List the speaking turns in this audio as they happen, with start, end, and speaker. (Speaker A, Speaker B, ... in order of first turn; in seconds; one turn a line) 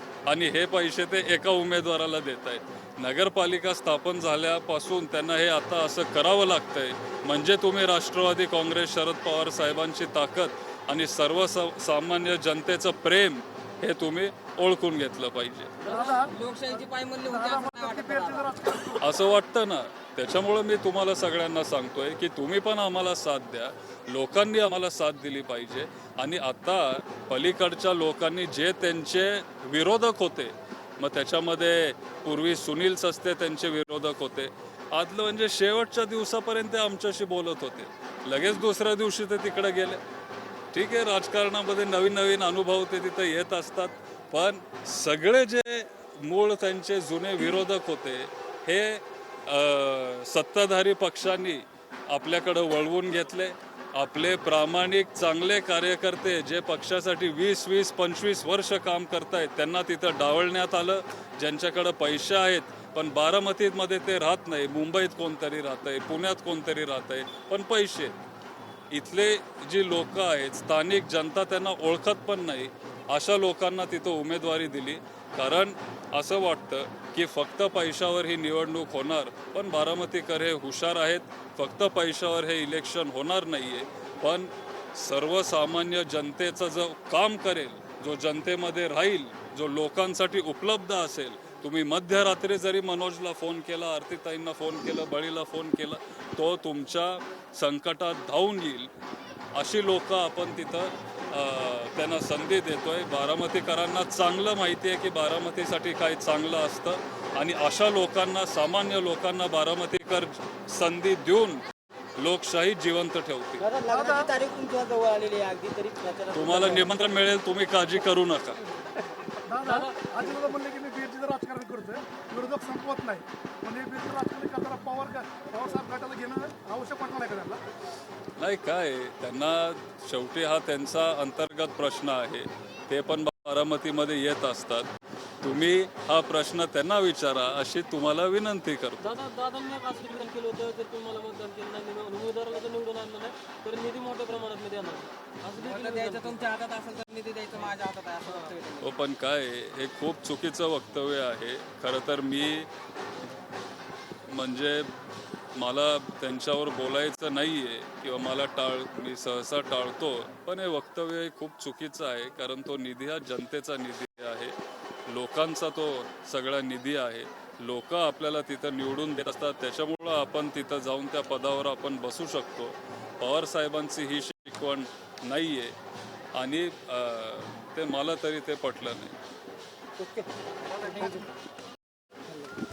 Speaker A: 0.3-15.8
Speaker B: 15.8-18.6
Speaker C: 15.9-19.1
Speaker A: 19.0-40.0
Speaker A: 40.7-68.2
Speaker A: 68.9-98.9
Speaker A: 99.5-111.6
Speaker A: 112.2-113.7
Speaker D: 113.6-116.9
Speaker C: 113.9-114.3
Speaker A: 116.3-118.6
Speaker C: 119.4-127.6
Speaker E: 119.6-120.3
Speaker A: 128.4-134.9
Speaker A: 135.4-139.0
Speaker E: 139.0-146.5
Speaker B: 145.6-149.0
Speaker E: 148.3-148.5
Speaker A: 148.8-152.7
Speaker A: 154.3-154.9
Speaker A: 155.6-164.6
Speaker A: 165.1-175.8
Speaker A: 176.4-179.2
Speaker D: 180.0-181.3
Speaker D: 182.3-182.6